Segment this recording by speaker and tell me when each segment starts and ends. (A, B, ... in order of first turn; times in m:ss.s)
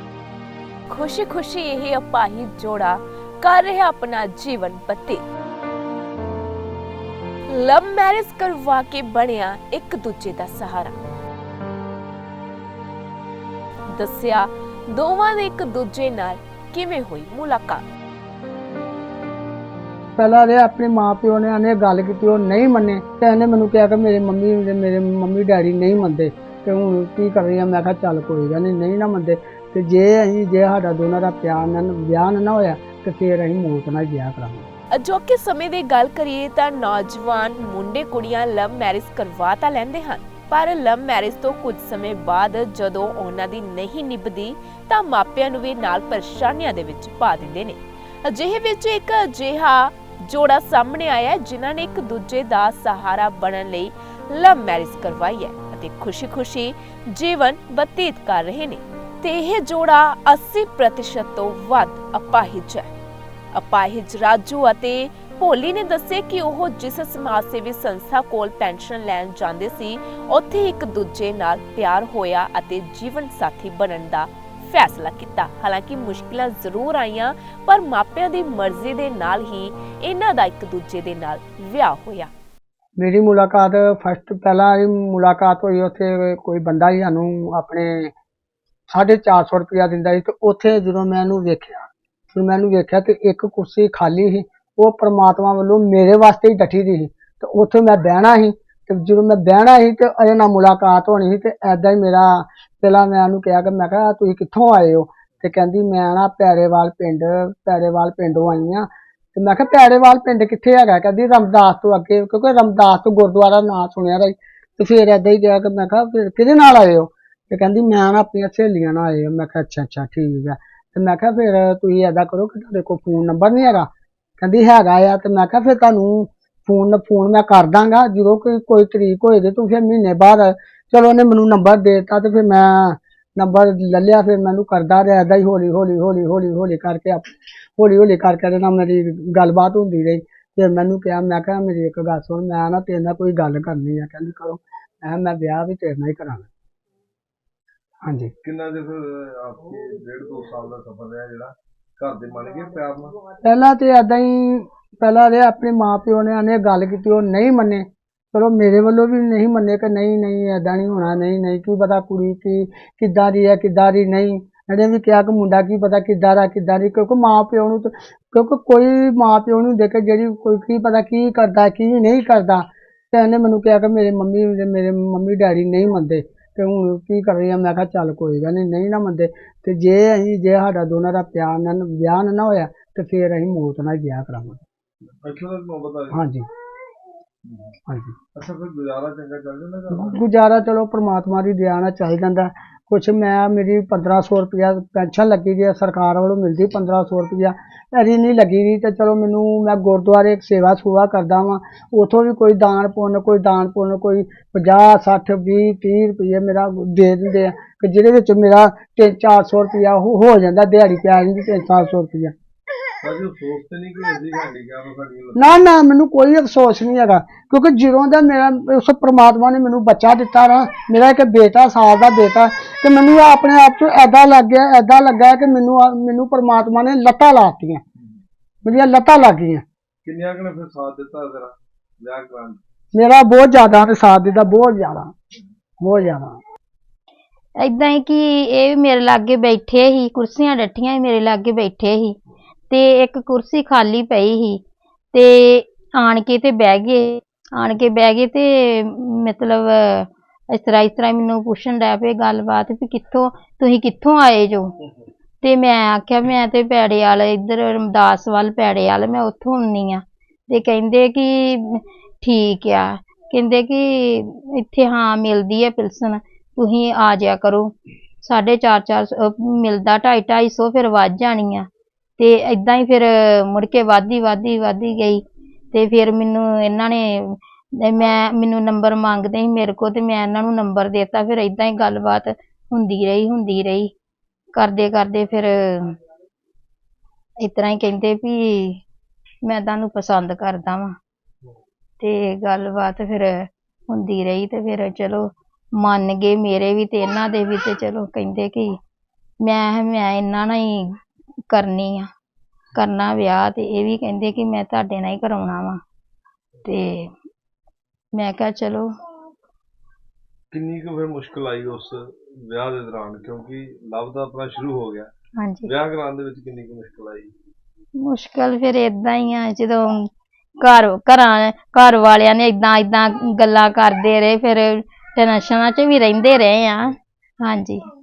0:00.9-0:05.2 A
0:07.5-0:11.0 A
0:14.0-0:17.8 A
0:20.2-0:34.7 B
0:35.0-1:02.9 A
1:03.6-1:22.3 A
1:23.0-1:28.1 B
1:28.9-2:26.5 B
2:28.0-2:28.3 B
2:28.4-2:33.2 C
2:33.4-3:04.6 B
3:05.2-3:06.2 C
3:06.1-3:06.4 B
3:07.4-3:07.7 C
3:07.9-3:08.2 B
3:08.3-3:10.2 C
3:09.9-3:32.3 B
3:33.0-3:35.7 C
3:35.4-3:47.8 B
3:48.6-3:49.6 B
3:50.0-3:52.6 C
3:52.9-3:55.1 B
3:55.8-3:56.4 B
3:57.6-4:02.2 D
4:02.7-4:04.6 D
4:05.1-4:14.7 D
4:15.4-4:27.7 D
4:28.2-4:31.7 D
4:32.2-4:35.2 D
4:35.7-4:43.9 D
4:44.6-4:46.0 D
4:47.4-4:48.8 D
4:49.4-4:50.9 D
4:52.0-4:55.3 D
4:55.8-4:58.7 D
4:59.4-5:00.9 D
5:01.5-5:02.1 D
5:02.8-5:05.8 D
5:06.6-5:07.1 D
5:08.1-5:08.9 D
5:10.5-5:15.1 C
5:15.4-5:15.7 D
5:15.7-5:17.3 C
5:18.0-5:19.9 D
5:20.6-5:27.8 D